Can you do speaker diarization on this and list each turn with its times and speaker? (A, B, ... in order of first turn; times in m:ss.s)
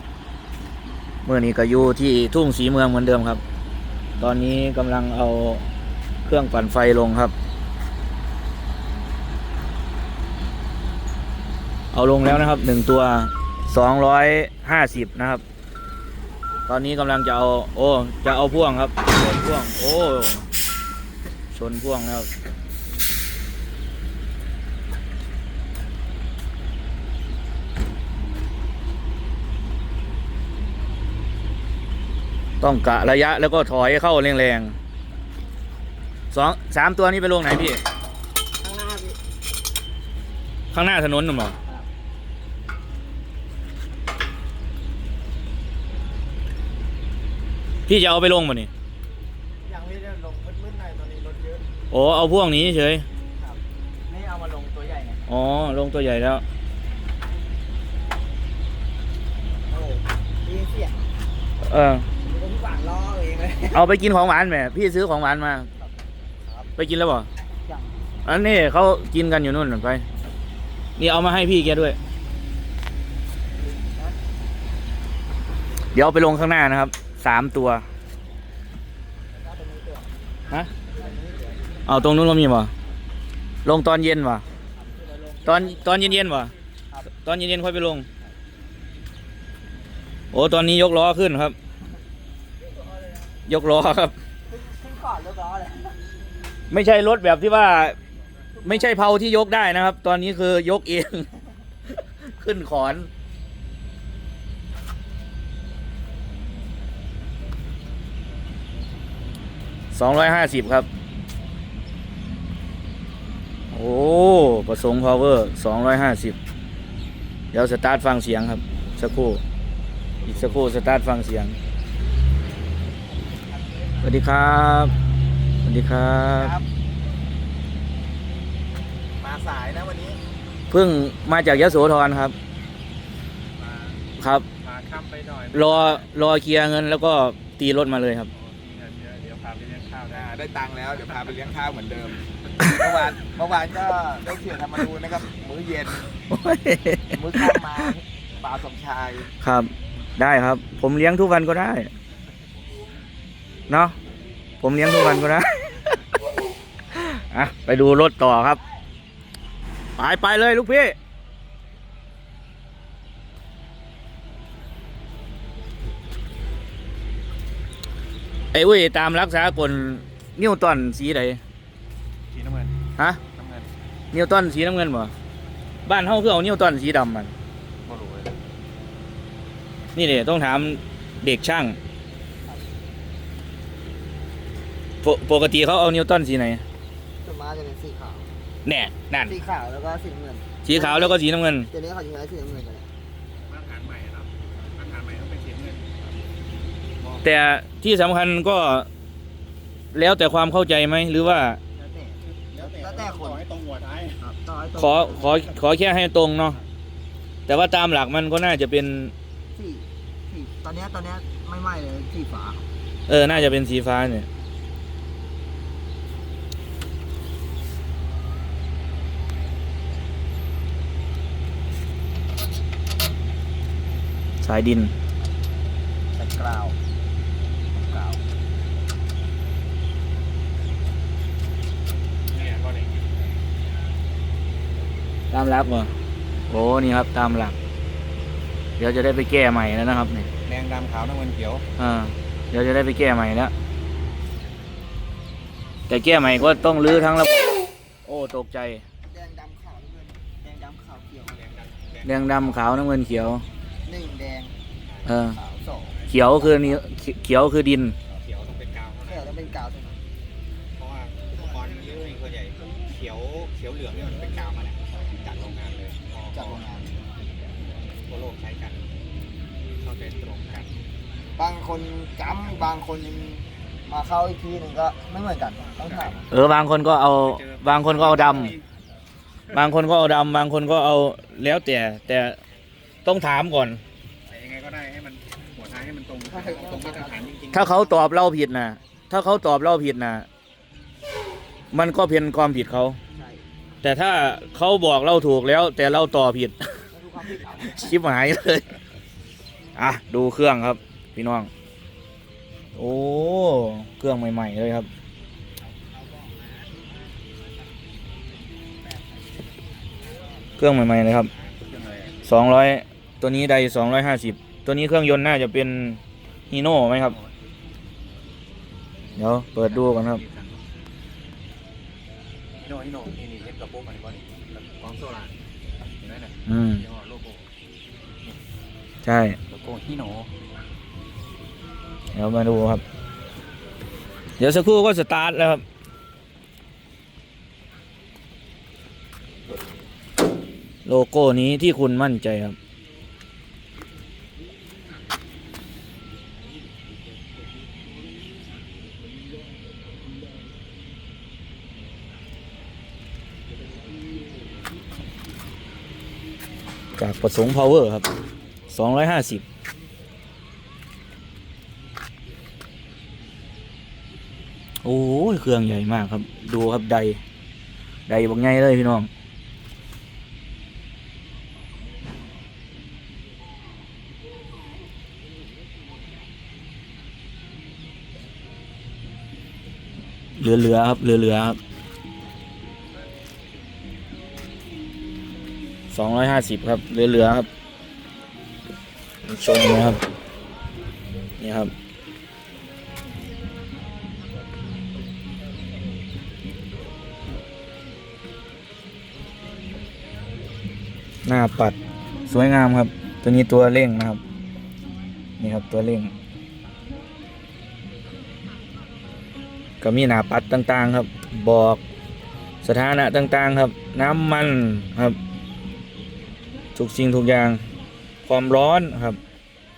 0:01.2-0:03.4 A
0:04.2-0:05.6 A
0:06.2-0:07.3 A
0:11.9-0:15.4 A
0:16.7-0:20.5 A
0:21.5-0:22.3 A
0:32.6-0:34.8 A
0:36.3-0:37.8 A
0:38.6-0:39.2 B
0:40.7-0:41.6 A
0:47.9-0:48.7 A
0:49.7-0:51.6 B
0:51.9-0:53.0 A
0:53.4-0:55.2 B
0:55.3-0:56.4 A
0:59.7-1:01.0 B
1:01.6-1:02.1 A
1:02.2-1:03.9 B
1:03.7-1:05.7 A
1:06.4-1:06.7 B
1:06.8-1:07.3 A
1:07.6-1:08.1 B
1:08.2-1:10.0 A
1:11.0-1:12.0 A
1:13.7-1:14.1 B
1:15.9-1:17.8 A
1:19.3-1:20.1 B
1:20.9-1:21.6 B
1:21.9-1:22.7 A
1:23.6-1:24.4 A
1:24.8-1:26.1 B
1:25.4-1:26.5 A
1:27.2-1:28.1 A
1:30.3-1:31.6 A
1:33.4-1:34.1 A
1:34.5-1:36.0 B
1:36.7-1:38.0 A
1:38.6-1:41.3 A
1:38.6-1:38.9 B
1:41.9-1:43.1 A
1:49.9-1:50.9 A
1:53.7-1:56.4 A
1:57.5-1:59.4 A
2:00.2-2:00.6 C
2:00.2-2:01.6 A
2:03.2-2:04.2 B
2:04.0-2:04.9 A
2:05.6-2:06.5 A
2:09.2-2:10.2 C
2:10.7-2:12.3 A
2:13.6-2:14.0 C
2:14.2-2:14.4 A
2:14.6-2:16.0 C
2:15.5-2:18.3 A
2:18.3-2:20.4 C
2:20.4-2:22.1 B
2:22.6-2:26.1 B
2:26.3-2:27.9 A
2:27.1-2:29.3 B
2:29.4-2:31.9 A
2:33.7-2:33.9 A
2:34.6-2:35.8 A
2:36.9-2:38.6 A
2:40.0-2:40.9 A
2:48.5-2:51.4 A
2:52.3-2:52.8 C
2:53.3-2:53.7 C
2:54.1-2:55.1 A
2:55.8-2:57.3 A
2:57.8-2:58.4 C
2:59.9-3:01.8 A
3:05.0-3:06.6 A
3:07.2-3:08.3 B
3:08.6-3:09.4 A
3:09.2-3:11.2 B
3:10.6-3:11.7 A
3:11.7-3:12.9 B
3:13.4-3:16.0 C
3:17.2-3:18.9 A
3:19.9-3:21.6 A
3:21.8-3:23.4 B
3:22.4-3:24.2 C
3:24.2-3:25.5 B
3:24.8-3:26.6 A
3:27.5-3:29.1 A
3:29.5-3:32.6 B
3:33.1-3:34.3 A
3:44.4-3:44.9 A
3:46.2-3:46.8 B
3:47.8-3:48.2 B
3:52.3-3:53.0 C
3:55.3-3:55.9 A
3:56.5-3:57.5 A
3:58.8-4:00.3 A
4:00.4-4:01.6 C
4:01.8-4:03.5 A
4:05.9-4:08.8 A
4:09.1-4:11.4 B
4:11.3-4:12.7 C
4:12.0-4:13.4 A
4:13.8-4:14.5 B
4:15.1-4:15.4 A
4:15.2-4:16.8 B
4:16.1-4:18.0 A
4:18.1-4:19.3 C
4:19.1-4:20.0 B
4:20.8-4:26.6 C
4:26.3-4:26.9 B
4:28.0-4:28.9 C
4:29.8-4:30.7 C
4:31.4-4:36.2 B
4:35.9-4:36.2 C
4:36.3-4:38.6 A
4:37.2-4:38.6 C
4:39.5-4:42.4 A
4:43.0-4:43.8 A
4:44.3-4:47.9 C
4:46.3-4:47.3 B
4:47.5-4:50.3 A
4:51.7-4:53.0 A
4:53.1-4:53.4 B
4:53.8-4:56.8 A
4:56.9-4:58.0 B
4:57.6-4:58.6 A
4:59.8-5:01.5 A
5:02.8-5:04.9 A
5:10.6-5:11.3 A
5:11.6-5:12.2 C
5:12.2-5:16.0 A
5:16.5-5:17.2 A
5:17.0-5:17.3 C
5:19.2-5:20.2 A
5:19.5-5:20.5 C
5:22.6-5:25.3 C
5:26.0-5:27.5 C
5:26.5-5:26.8 A
5:29.0-5:29.4 A
5:29.5-5:30.3 C
5:32.1-5:32.8 A
5:34.4-5:35.6 A
5:40.8-5:42.6 A
5:57.0-5:58.1 A
5:58.7-5:59.4 A
6:04.8-6:07.2 A
6:08.1-6:09.1 A
6:20.4-6:21.6 A
6:25.9-6:27.5 A
6:29.2-6:30.0 A
6:31.4-6:31.7 A
6:41.2-6:44.2 A
6:45.4-6:46.1 A
6:49.8-6:51.8 A
6:52.6-6:55.2 A
6:56.8-6:57.6 A
6:58.2-6:59.2 A